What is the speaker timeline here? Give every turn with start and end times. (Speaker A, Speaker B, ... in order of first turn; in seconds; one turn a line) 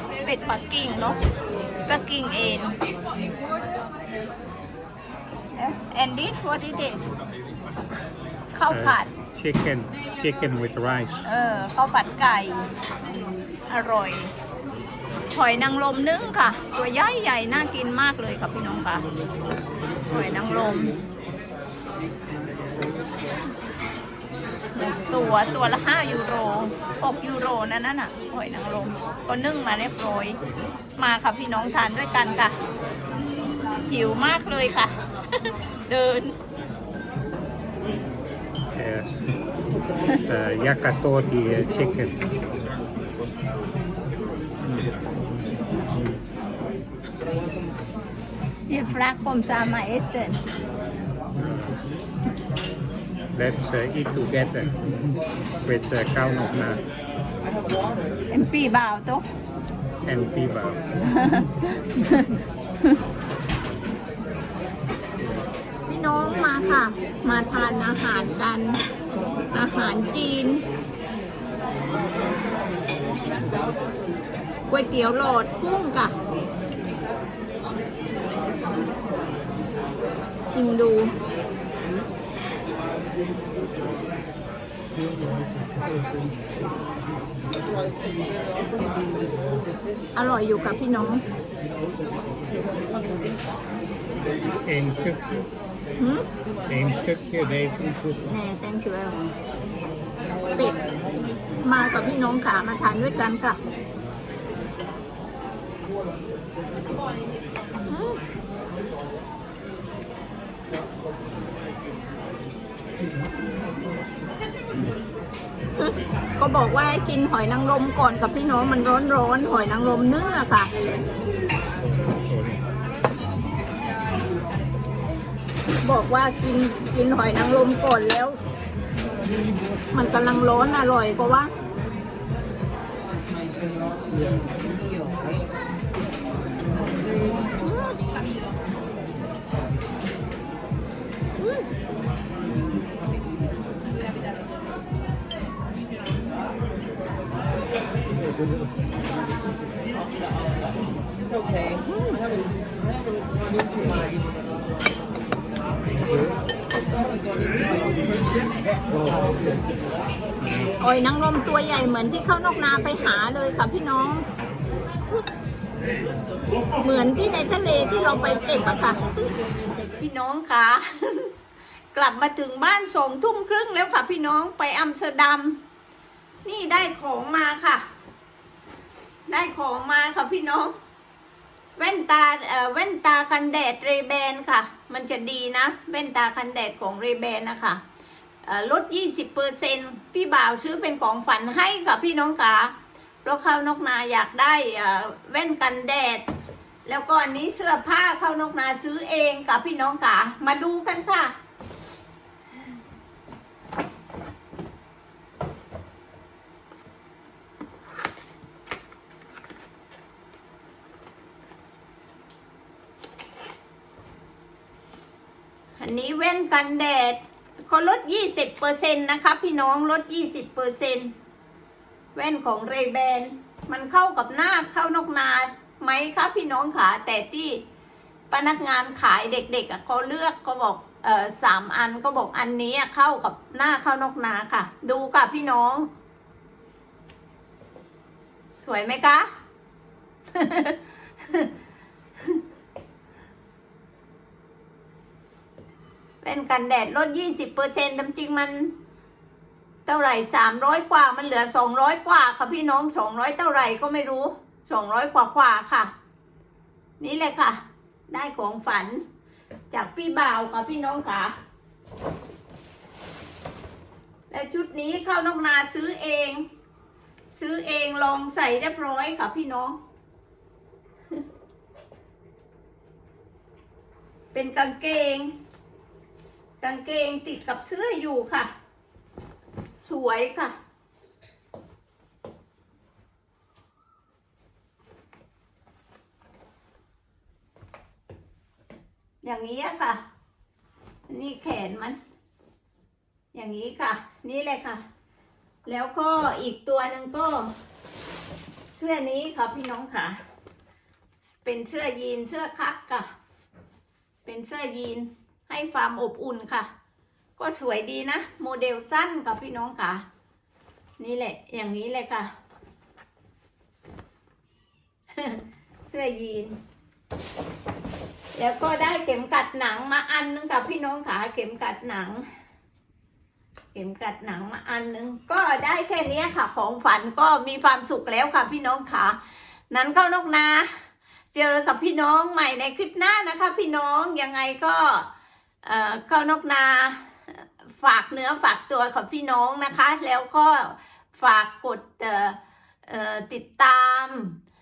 Speaker A: 0.2-1.2
Speaker A: 1.9-2.8
Speaker A: 5.5-7.0
Speaker A: 8.5-9.1
Speaker B: 8.7-11.2
Speaker A: 11.2-12.6
Speaker A: 13.7-14.3
Speaker A: 15.3-19.1
Speaker A: 20.1-20.9
Speaker A: 24.7-30.4
Speaker A: 31.0-32.5
Speaker A: 33.9-36.3
Speaker B: 38.7-39.4
Speaker B: 40.1-42.2
Speaker B: 44.6-44.9
Speaker A: 48.7-50.4
Speaker B: 51.3-51.8
Speaker B: 53.3-56.8
Speaker A: 58.3-59.2
Speaker B: 60.0-60.9
Speaker A: 61.1-62.3
Speaker A: 65.9-68.8
Speaker A: 69.5-70.6
Speaker A: 74.7-76.1
Speaker A: 80.5-81.1
Speaker A: 90.2-91.2
Speaker B: 94.6-95.5
Speaker A: 96.0-96.3
Speaker B: 96.7-98.2
Speaker A: 98.3-99.2
Speaker A: 100.5-100.8
Speaker A: 101.6-103.6
Speaker A: 107.9-108.2
Speaker A: 115.8-120.7
Speaker B: 122.0-122.6
Speaker A: 125.8-128.4
Speaker A: 129.9-131.5
Speaker B: 160.4-160.7
Speaker A: 160.8-164.3
Speaker A: 166.8-169.0
Speaker A: 170.0-171.3
Speaker A: 171.9-175.6
Speaker A: 176.4-177.8
Speaker A: 179.3-180.7
Speaker A: 181.8-187.8
Speaker A: 188.4-196.2
Speaker A: 196.8-201.3
Speaker A: 215.8-221.1
Speaker A: 222.1-227.6
Speaker A: 228.3-235.9
Speaker A: 238.6-239.3
Speaker A: 240.3-241.5
Speaker A: 246.2-248.7
Speaker A: 249.8-255.9
Speaker A: 257.0-259.0
Speaker A: 259.7-261.3
Speaker A: 264.3-266.4
Speaker A: 267.3-269.8
Speaker A: 274.3-275.3
Speaker A: 276.6-278.5
Speaker A: 279.8-280.5
Speaker A: 289.2-290.0
Speaker A: 291.1-292.0
Speaker A: 293.3-294.8
Speaker A: 295.6-297.5
Speaker A: 298.7-300.2
Speaker A: 301.3-303.1
Speaker A: 304.2-306.7
Speaker A: 307.4-310.0
Speaker A: 311.0-312.3
Speaker A: 315.1-316.6
Speaker A: 318.3-322.2
Speaker A: 323.7-329.2
Speaker A: 329.7-330.7
Speaker A: 331.3-335.1
Speaker A: 335.6-344.4